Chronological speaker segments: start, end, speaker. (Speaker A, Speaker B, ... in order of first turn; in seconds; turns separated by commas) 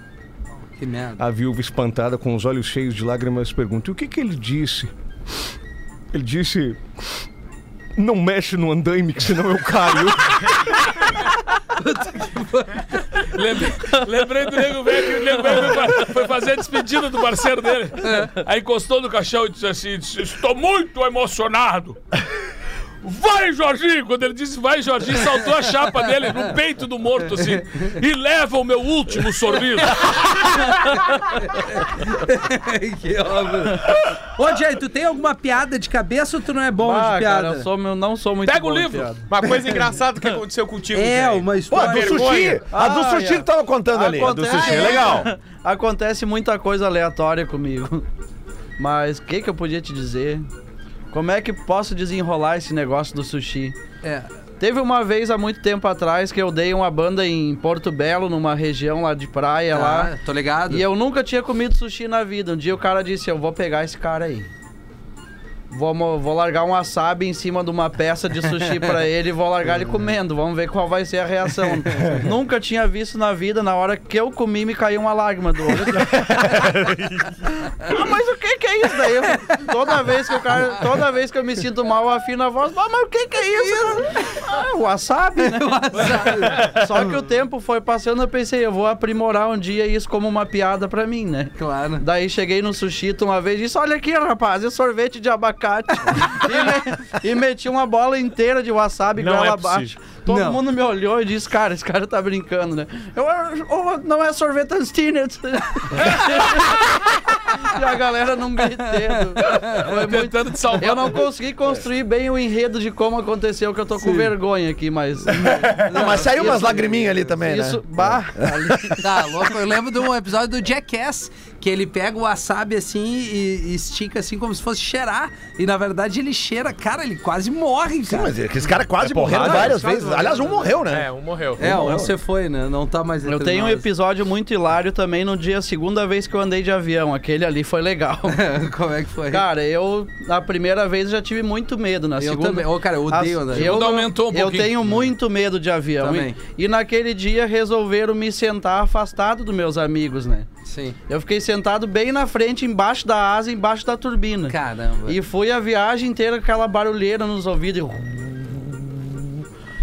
Speaker A: 0.8-1.2, Speaker B: 1.2-4.9, Speaker B: 6.1-7.2, Speaker B: 8.0-10.8, Speaker A: 11.7-13.2, Speaker C: 13.2-22.0, Speaker A: 18.0-18.3, Speaker C: 23.0-31.0, Speaker A: 30.6-37.7, Speaker D: 36.8-39.3, Speaker C: 38.4-39.1, Speaker E: 39.3-42.7, Speaker A: 40.9-42.4, Speaker F: 41.7-45.3, Speaker D: 42.7-48.0, Speaker A: 44.7-45.0, Speaker D: 48.8-50.5, Speaker D: 51.1-53.8, Speaker A: 54.0-54.3, Speaker D: 54.6-60.1, Speaker A: 59.7-60.8, Speaker D: 60.7-64.5, Speaker D: 65.7-76.8, Speaker E: 76.6-77.3, Speaker D: 77.8-119.1, Speaker A: 83.6-84.0, Speaker A: 85.4-87.1, Speaker A: 91.6-92.0, Speaker E: 99.2-99.9, Speaker A: 100.3-100.6, Speaker A: 109.5-109.8, Speaker C: 109.7-111.2, Speaker A: 114.0-114.3, Speaker A: 115.4-116.6, Speaker F: 115.5-119.0, Speaker A: 119.0-128.3, Speaker F: 128.1-131.1, Speaker B: 129.1-129.7, Speaker E: 129.2-129.9, Speaker A: 129.4-129.6, Speaker E: 130.8-131.8, Speaker A: 131.6-133.9, Speaker F: 131.6-132.1, Speaker D: 133.3-138.4, Speaker A: 138.3-139.4, Speaker D: 139.3-150.5, Speaker A: 142.2-143.8, Speaker C: 143.5-144.8, Speaker A: 146.0-146.4, Speaker A: 150.7-151.0, Speaker D: 151.1-159.4, Speaker A: 154.5-155.2